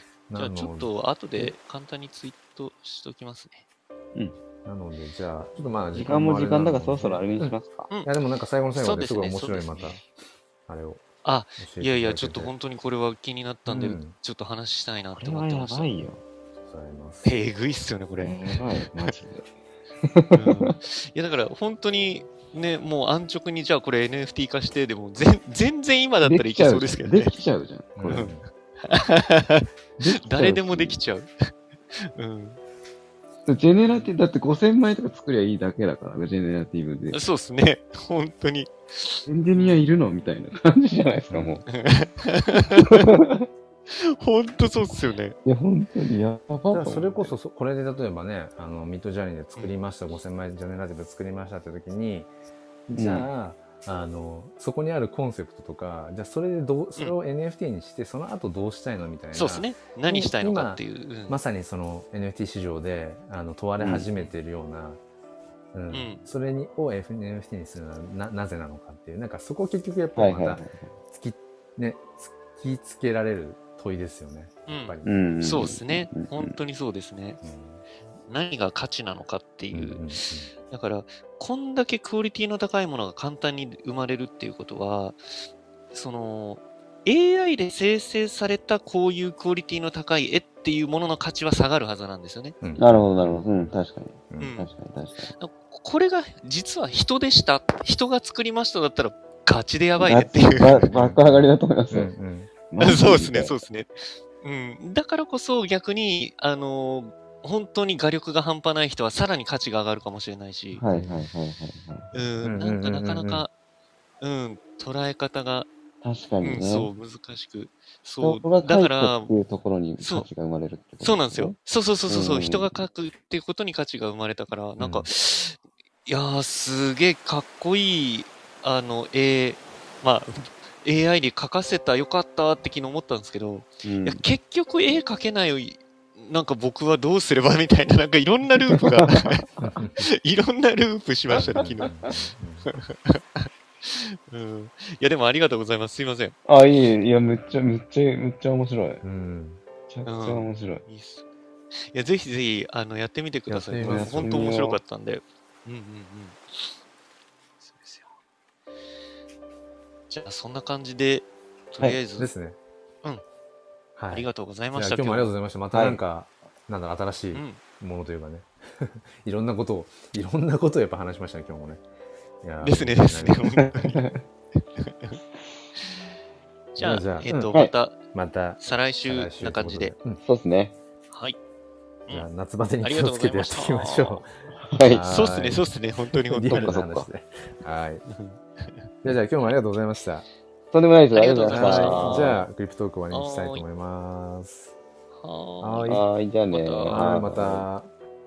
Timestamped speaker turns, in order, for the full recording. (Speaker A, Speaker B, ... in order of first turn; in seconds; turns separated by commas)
Speaker A: 0.3-0.9, Speaker B: 0.3-3.6, Speaker A: 4.6-10.1, Speaker C: 5.9-7.9, Speaker B: 8.7-10.0, Speaker A: 10.7-11.1, Speaker B: 11.2-15.9, Speaker A: 11.6-12.5, Speaker A: 13.7-14.2, Speaker C: 15.1-16.2, Speaker A: 16.6-17.3, Speaker B: 17.2-19.2, Speaker C: 18.2-19.4, Speaker C: 20.0-20.7, Speaker B: 20.3-27.3, Speaker C: 26.2-28.3, Speaker A: 27.9-28.4, Speaker B: 28.1-31.3, Speaker C: 30.0-31.0, Speaker B: 31.9-32.6, Speaker C: 33.5-37.2, Speaker B: 37.1-39.8, Speaker C: 39.3-41.6, Speaker A: 41.3-41.6, Speaker B: 41.7-43.1, Speaker C: 42.8-43.5, Speaker B: 43.9-45.4, Speaker C: 45.4-47.3, Speaker A: 46.7-52.3, Speaker A: 52.9-65.0, Speaker C: 52.9-53.3, Speaker B: 59.3-61.4, Speaker C: 63.8-64.1, Speaker A: 65.7-75.1, Speaker B: 65.9-66.2, Speaker C: 70.2-70.9, Speaker B: 74.7-77.4, Speaker C: 75.0-76.6, Speaker A: 77.4-77.8, Speaker B: 78.3-85.2, Speaker A: 79.7-80.5, Speaker B: 85.9-92.6, Speaker A: 92.6-93.7, Speaker C: 92.8-95.3, Speaker A: 94.3-94.6, Speaker B: 94.4-94.7, Speaker B: 95.3-100.9, Speaker C: 100.0-102.1, Speaker A: 100.7-102.5, Speaker C: 102.7-103.6, Speaker B: 102.8-110.8, Speaker C: 110.7-112.1, Speaker B: 112.1-113.5, Speaker A: 112.4-113.5, Speaker B: 114.2-115.7, Speaker C: 116.0-116.9, Speaker B: 116.4-119.3, Speaker C: 118.2-122.7, Speaker B: 120.0-120.3, Speaker B: 121.0-139.4, Speaker A: 124.8-125.1, Speaker C: 133.8-134.2, Speaker C: 138.7-139.2, Speaker A: 139.6-140.1, Speaker B: 140.0-141.9, Speaker A: 141.3-142.7, Speaker C: 141.5-142.1, Speaker B: 142.7-146.3, Speaker C: 146.4-149.0, Speaker A: 149.0-149.6, Speaker C: 149.9-150.8, Speaker B: 150.1-151.2, Speaker B: 151.8-156.7, Speaker A: 153.5-154.4, Speaker C: 153.8-154.8, Speaker B: 157.6-158.1, Speaker B: 160.1-162.3, Speaker A: 162.2-162.6, Speaker A: 163.9-171.8, Speaker B: 164.1-165.3, Speaker C: 165.7-166.0, Speaker B: 167.3-167.6, Speaker A: 172.4-173.5, Speaker B: 172.6-174.1, Speaker C: 173.6-174.2, Speaker B: 174.8-175.2, Speaker B: 176.8-177.9, Speaker A: 176.8-177.6, Speaker A: 178.1-180.2, Speaker B: 178.6-179.9, Speaker C: 180.2-180.7, Speaker B: 181.1-181.4, Speaker A: 182.1-184.3, Speaker B: 182.8-184.3, Speaker C: 184.7-185.1, Speaker A: 184.8-185.7, Speaker B: 185.1-186.8, Speaker A: 186.3-188.1, Speaker C: 186.4-187.1, Speaker B: 188.1-188.9, Speaker A: 189.0-190.3, Speaker C: 190.7-192.4, Speaker B: 191.1-192.4, Speaker A: 191.5-194.7, Speaker B: 193.1-193.6, Speaker B: 195.1-197.2, Speaker A: 195.6-196.1, Speaker C: 195.9-197.7, Speaker A: 196.9-197.9